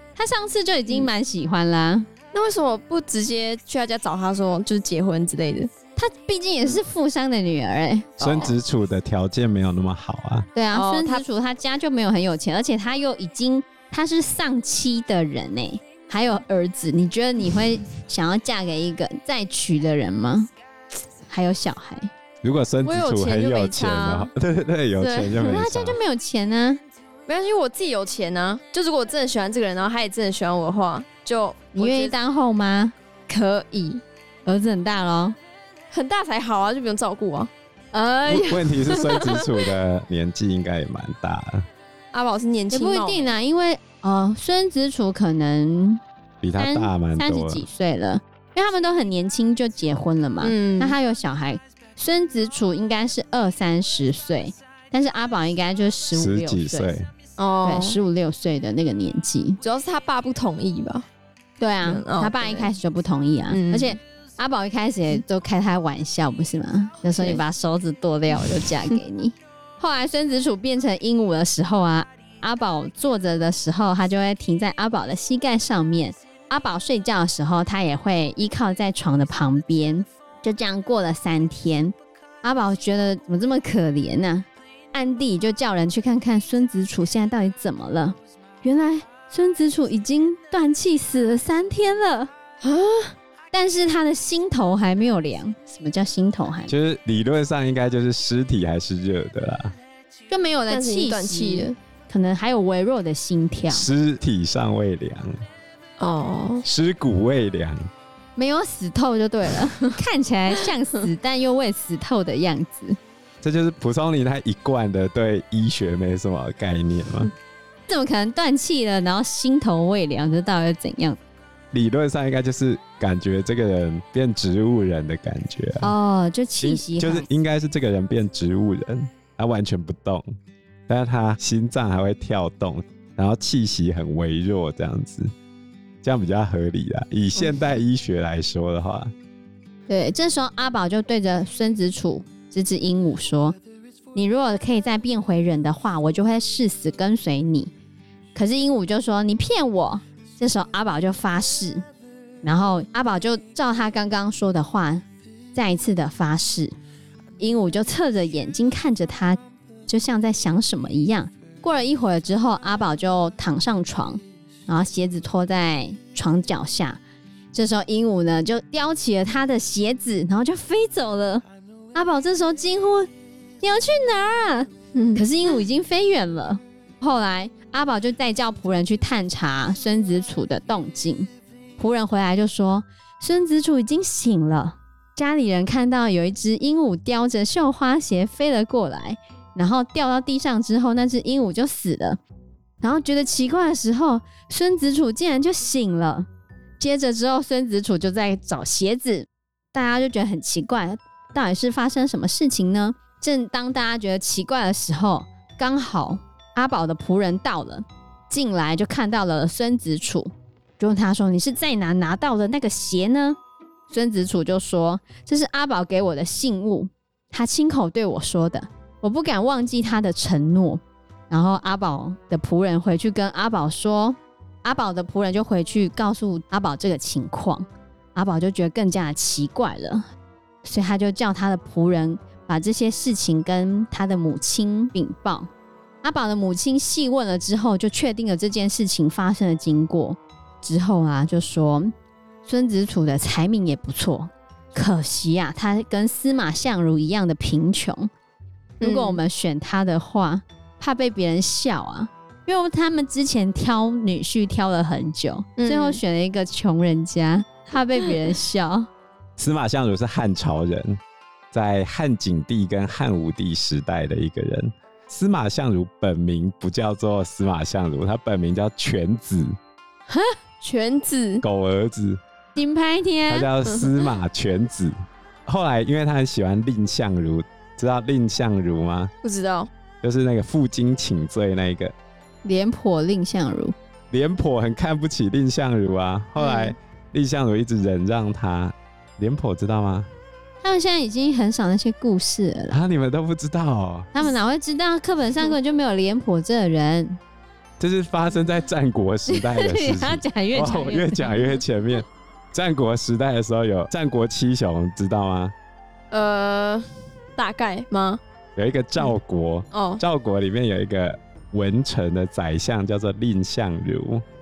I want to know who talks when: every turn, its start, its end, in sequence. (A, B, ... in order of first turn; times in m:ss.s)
0:00.2-0:02.1 A
0:02.3-0:05.7 B
0:06.0-0:08.1 A
0:08.2-0:08.6 B
0:08.2-0:10.5 C
0:10.5-0:20.5 A
0:10.7-0:11.2 B
0:21.3-0:22.1 A
0:22.4-0:26.0 C
0:22.8-0:24.3 B
0:25.0-0:25.5 B
0:25.4-0:26.8 A
0:27.3-0:32.1 B
0:31.8-0:32.9 A
0:33.3-0:34.0 B
0:34.4-0:35.4 A
0:35.9-0:37.5 B
0:37.9-0:38.9 A
0:38.3-0:41.6 C
0:38.9-0:39.4 B
0:42.1-0:43.3 B
0:42.7-0:46.0 A
0:46.4-0:47.6 C
0:46.6-0:57.0 A
0:50.4-0:51.0 B
0:56.1-0:57.1 C
0:57.4-0:58.0 B
0:57.6-0:59.6 A
0:59.6-1:01.0 B
1:01.6-1:32.3 A
1:01.8-1:02.7 B
1:03.5-1:04.0 B
1:07.0-1:07.4 B
1:08.4-1:09.0 B
1:32.6-1:33.1 B
1:33.5-1:36.7 A
1:36.7-1:39.7 C
1:40.3-1:43.9 A
1:40.7-1:41.8 B
1:43.7-1:45.4 C
1:46.0-1:46.6 B
1:46.6-1:47.8 C
1:48.4-1:53.0 A
1:53.4-1:57.3 C
1:57.9-2:01.2 A
2:01.7-2:05.9 C
2:05.8-2:07.3 A
2:06.6-2:10.2 C
2:10.9-2:15.3 C
2:16.0-2:19.1 C
2:17.4-2:17.7 B
2:19.9-2:23.6 A
2:24.1-2:27.7 A
2:28.3-2:31.8 A
2:32.4-2:36.7 A
2:37.4-2:47.0 A
2:47.5-2:53.1 A
2:53.6-3:12.2 A
2:54.9-2:55.2 B
3:12.8-3:16.3 A
3:16.8-3:33.4 A
3:33.9-3:50.0 A
3:50.6-3:55.5 A
3:56.0-4:01.9 A
4:02.4-4:08.1 A
4:08.8-4:09.2 B
4:08.8-4:18.9 A
4:15.6-4:16.0 B
4:19.4-4:21.0 C
4:21.5-4:29.5 C
4:30.1-4:31.4 B
4:31.4-4:32.2 C
4:32.5-4:33.5 A
4:33.3-4:34.9 C
4:33.6-4:34.1 B
4:35.4-4:39.1 C
4:39.2-4:39.7 B
4:40.0-4:41.9 C
4:42.4-4:43.7 A
4:44.1-4:50.1 C
4:46.4-4:46.7 B
4:50.6-4:52.8 A
4:52.7-4:54.1 C
4:54.1-4:57.2 A
4:57.8-5:05.5 C
4:59.3-5:01.4 A
5:06.1-5:08.2 B
5:08.6-5:14.2 C
5:09.7-5:10.0 B